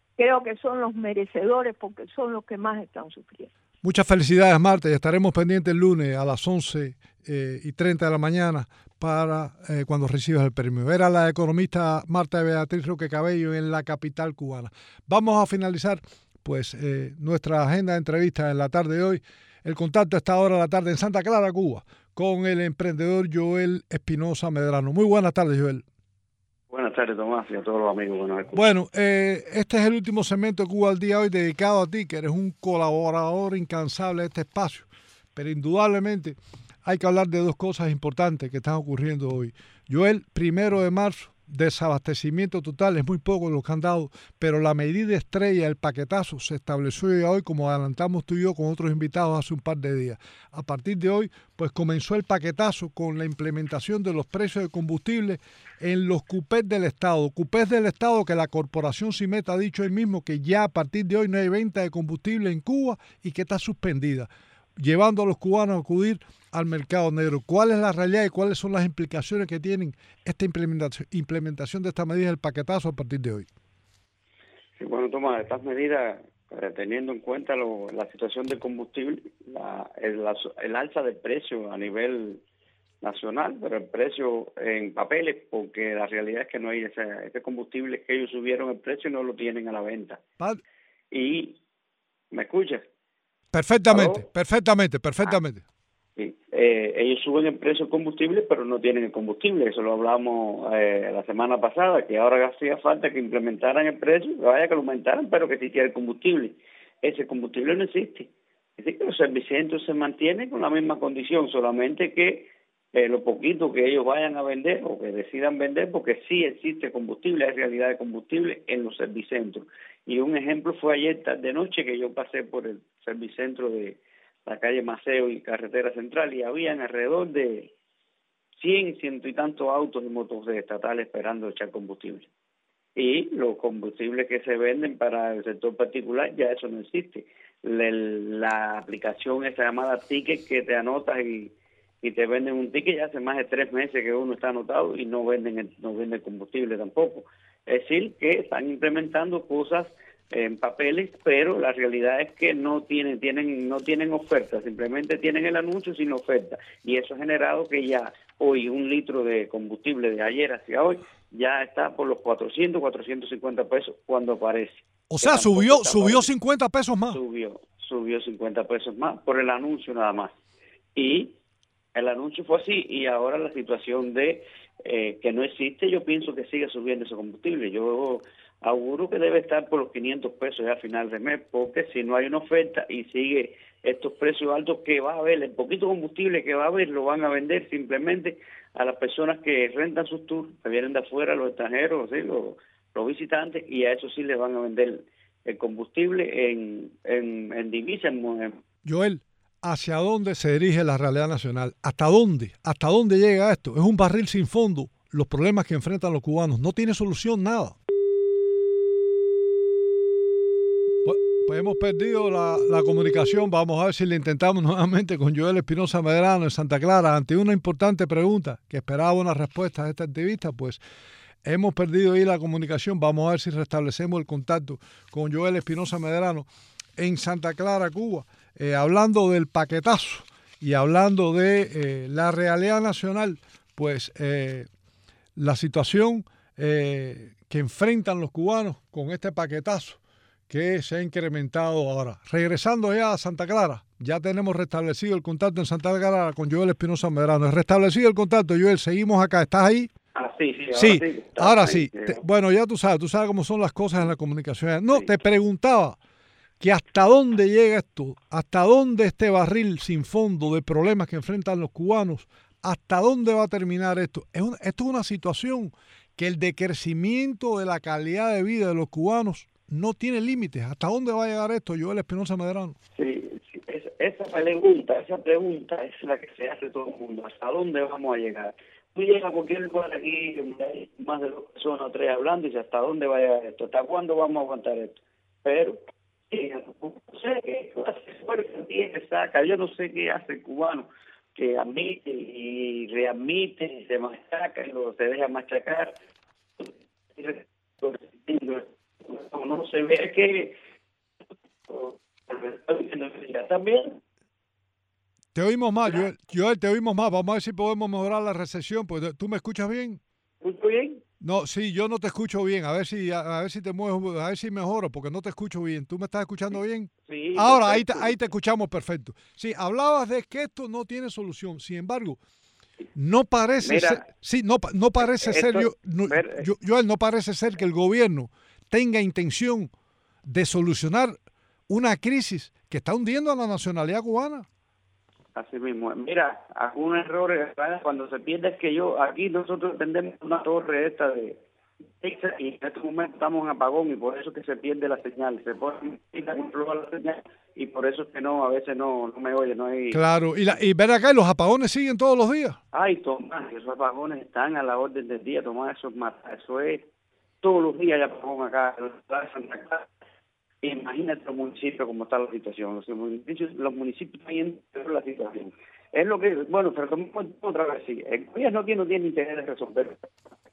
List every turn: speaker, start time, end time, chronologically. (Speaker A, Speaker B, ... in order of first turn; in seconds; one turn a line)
Speaker A: 0.2-3.5
Speaker B: 3.8-25.8
Speaker C: 26.7-28.6
Speaker B: 28.5-73.5
Speaker C: 74.8-82.4
Speaker C: 83.0-90.2
Speaker C: 91.1-91.6
Speaker C: 92.3-92.8
Speaker B: 93.5-95.6
Speaker C: 93.9-94.2
Speaker C: 96.2-127.7
Speaker C: 128.6-132.3
Speaker C: 133.0-166.3
Speaker B: 165.1-167.2
Speaker C: 167.1-170.3
Speaker C: 170.9-171.4
Speaker C: 171.9-198.6
Speaker B: 198.8-207.8
Speaker B: 211.0-220.8
Speaker B: 221.4-226.5
Speaker B: 227.0-234.7
Speaker B: 235.4-249.9
Speaker C: 250.2-252.2
Speaker B: 250.7-256.0
Speaker B: 256.6-272.8
Speaker C: 273.0-285.8
Speaker C: 286.3-295.9
Speaker C: 296.6-300.6
Speaker C: 301.7-304.0
Speaker B: 305.3-310.0
Speaker C: 310.4-311.0
Speaker B: 311.2-322.2
Speaker C: 317.1-318.1
Speaker B: 322.9-329.7
Speaker C: 323.6-324.0
Speaker C: 325.0-326.5
Speaker B: 330.3-331.2
Speaker B: 331.7-334.5
Speaker C: 335.4-341.4
Speaker C: 342.0-350.0
Speaker B: 349.9-352.6
Speaker C: 352.7-356.9
Speaker C: 357.4-359.9
Speaker C: 360.6-370.1